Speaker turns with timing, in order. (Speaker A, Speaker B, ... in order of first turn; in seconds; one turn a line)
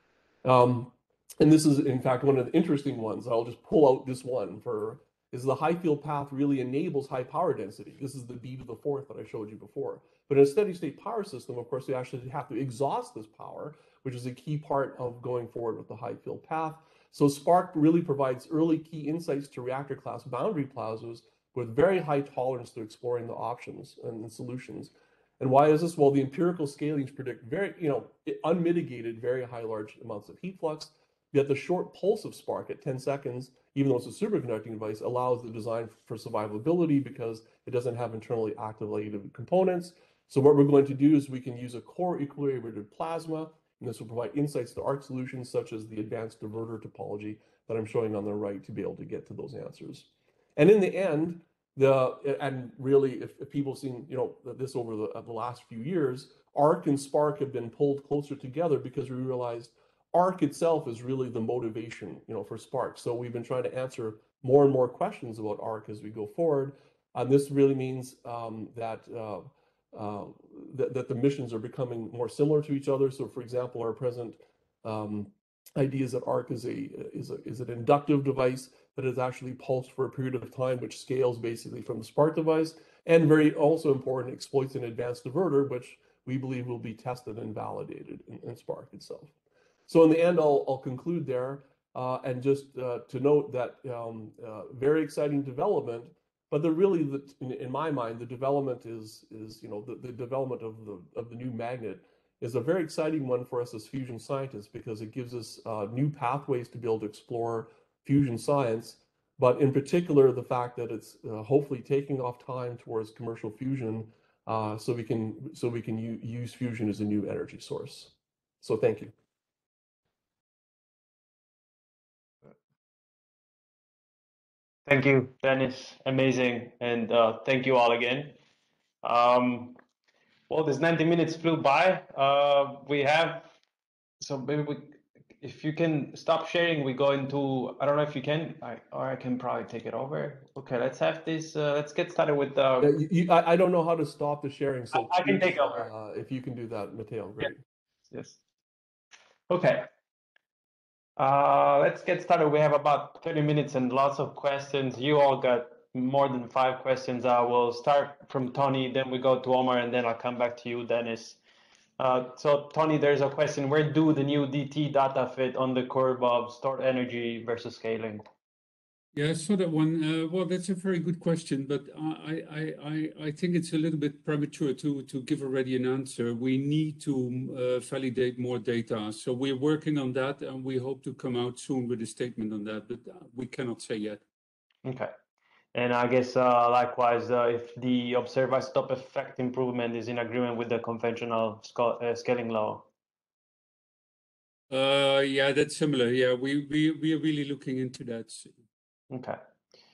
Speaker A: 0.4-89.3
Speaker A: 89.9-119.1
Speaker B: 124.9-128.4
Speaker B: 129.0-129.8
Speaker B: 130.5-133.5
Speaker B: 134.2-142.9
Speaker A: 142.8-147.6
Speaker B: 144.9-145.9
Speaker B: 148.1-148.4
Speaker B: 149.5-149.9
Speaker B: 151.2-161.4
Speaker B: 162.0-168.2
Speaker C: 169.1-184.2
Speaker B: 184.8-185.1
Speaker B: 185.7-192.9
Speaker C: 194.7-198.5
Speaker B: 199.1-199.4